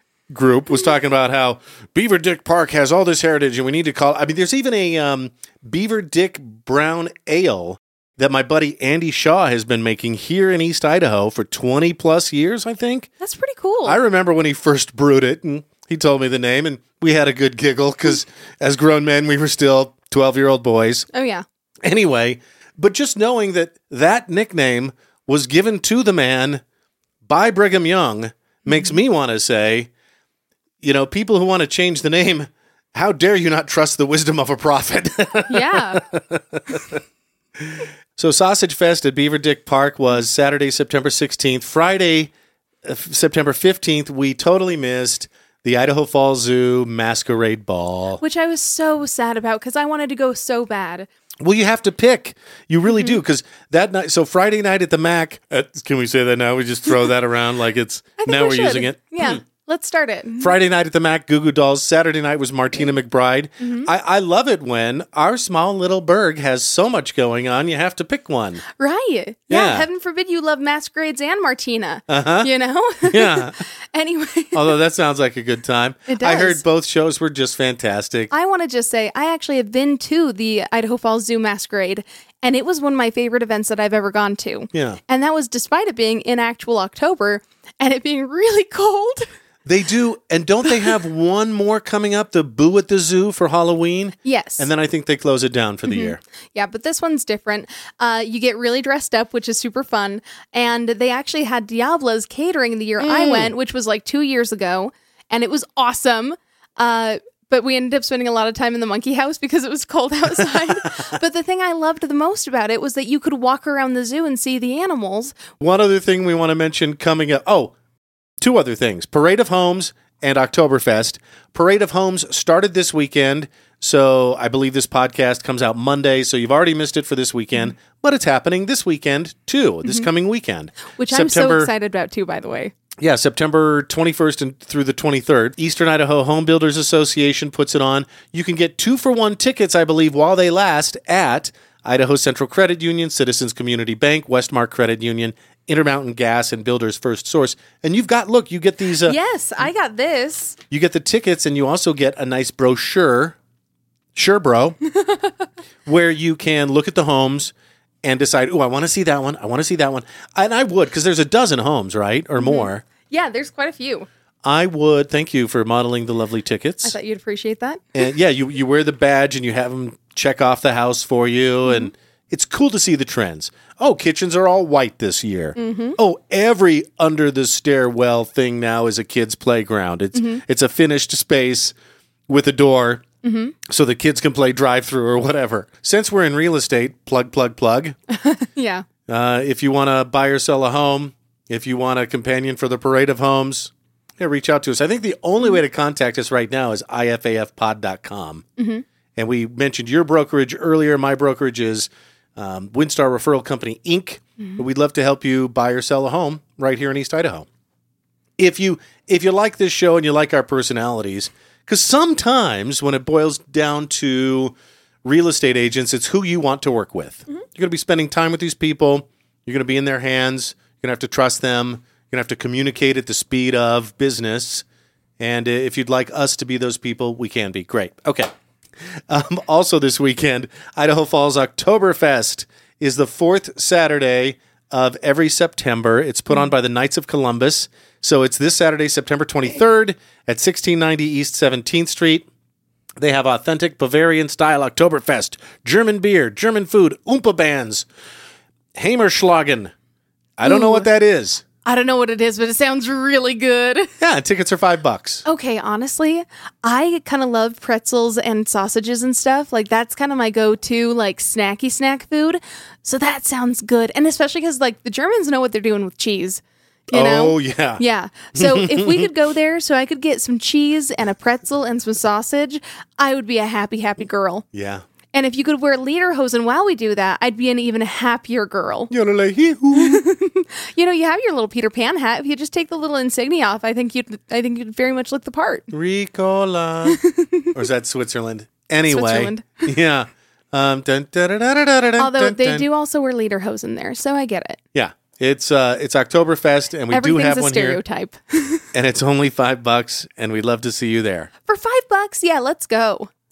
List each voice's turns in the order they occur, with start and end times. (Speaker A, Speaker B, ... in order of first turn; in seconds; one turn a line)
Speaker A: 0.3-13.1
Speaker B: 13.2-14.0
Speaker A: 13.8-21.1
Speaker B: 21.1-21.4
Speaker A: 21.8-26.6
Speaker A: 27.2-29.9
Speaker B: 28.6-28.9
Speaker A: 30.8-37.0
Speaker B: 35.5-36.0
Speaker A: 37.6-42.3
Speaker A: 42.8-48.2
Speaker B: 48.2-51.1
Speaker A: 51.4-59.4
Speaker B: 52.9-53.2
Speaker B: 58.2-60.5
Speaker A: 60.4-68.6
Speaker B: 63.6-63.9
Speaker B: 68.7-74.7
Speaker A: 69.5-69.9
Speaker A: 72.1-72.5
Speaker A: 73.0-73.6
Speaker A: 74.5-78.3
Speaker B: 76.1-76.6
Speaker B: 78.3-89.3
Speaker A: 84.7-85.0
Speaker A: 89.6-96.2
Speaker B: 94.2-94.7
Speaker B: 95.9-115.4
Speaker A: 103.0-103.5
Speaker A: 115.6-117.7
Speaker A: 118.4-131.7
Speaker B: 131.0-132.7
Speaker A: 133.0-149.2
Speaker B: 149.1-150.6
Speaker A: 150.7-153.4
Speaker A: 154.1-154.8
Speaker A: 155.9-157.5
Speaker A: 158.0-162.8
Speaker B: 162.4-164.1
Speaker A: 164.4-166.9
Speaker B: 166.8-168.0
Speaker A: 167.9-181.7
Speaker B: 171.7-171.9
Speaker B: 175.6-176.0
Speaker B: 180.2-180.4
Speaker A: 182.3-183.1
Speaker B: 183.2-183.6
Speaker A: 183.6-187.9
Speaker B: 188.1-188.9
Speaker A: 189.1-198.4
Speaker B: 198.6-198.8
Speaker A: 199.2-207.4
Speaker A: 208.4-224.6
Speaker A: 225.2-228.3
Speaker A: 229.1-242.3
Speaker A: 243.0-247.9
Speaker A: 248.7-249.7
Speaker A: 250.4-251.4
Speaker B: 250.4-250.9
Speaker B: 251.6-253.9
Speaker A: 254.0-255.2
Speaker B: 255.2-274.4
Speaker A: 266.9-267.8
Speaker A: 268.3-269.1
Speaker A: 274.5-274.8
Speaker B: 275.1-278.9
Speaker A: 278.9-280.1
Speaker B: 279.7-285.7
Speaker A: 285.7-287.0
Speaker B: 286.9-287.5
Speaker A: 287.5-292.7
Speaker B: 288.9-289.7
Speaker B: 292.0-294.6
Speaker A: 294.7-297.8
Speaker B: 296.9-298.6
Speaker A: 298.7-301.3
Speaker B: 301.4-303.1